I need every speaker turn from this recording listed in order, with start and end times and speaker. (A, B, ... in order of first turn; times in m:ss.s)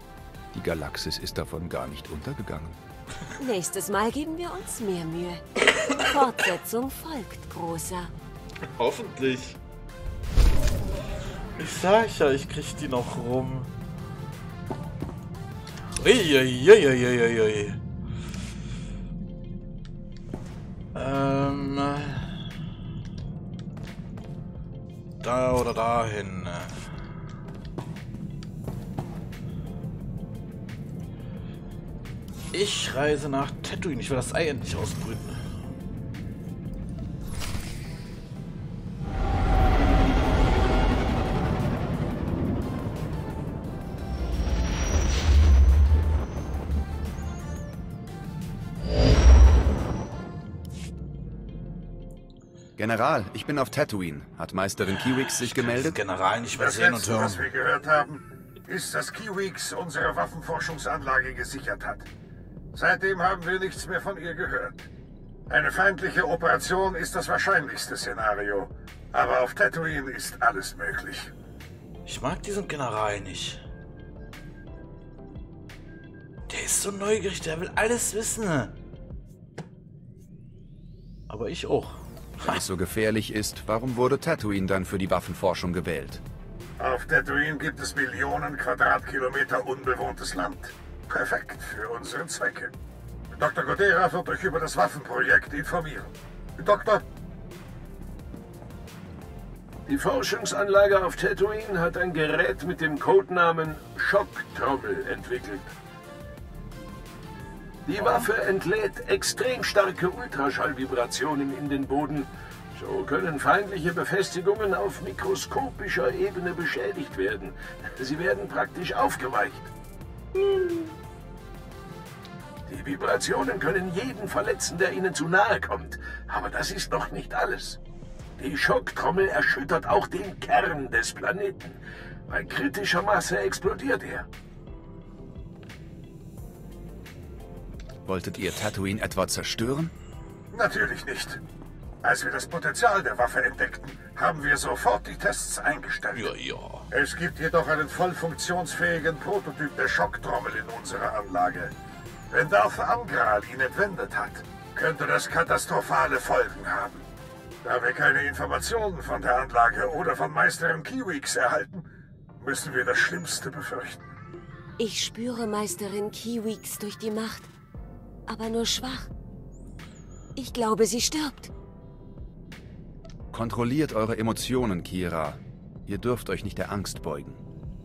0:00.5-0:02.8 A
0:03.4-0:08.1 B
0:08.8-0:09.6 C
0:11.6-0:13.7 C
0:16.0-0:17.8 C
0:20.9-0:22.4 C
0:25.2-0:26.9 C
0:32.5-0:35.4 C
0:52.8-0:56.0 A
0:55.0-0:57.5 C
0:56.6-1:02.1 D
1:02.7-1:04.9 D
1:05.5-1:11.3 D
1:12.0-1:13.6 C
1:16.5-1:18.7 C
1:21.3-1:22.6 C
1:22.4-1:26.2 A
1:26.8-1:32.7 D
1:33.3-1:37.0 D
1:39.8-1:45.7 E
1:47.8-1:59.7 E
2:02.7-2:07.8 E
2:08.4-2:14.2 E
2:18.0-2:19.9 A
2:20.5-2:21.4 D
2:22.0-2:26.3 D
2:26.1-2:26.9 C
2:26.9-2:31.7 D
2:32.3-2:37.0 D
2:37.6-2:41.8 D
2:42.4-2:44.0 D
2:44.8-2:47.5 B
2:48.3-2:49.1 B
2:50.4-2:51.5 B
2:53.3-2:57.4 A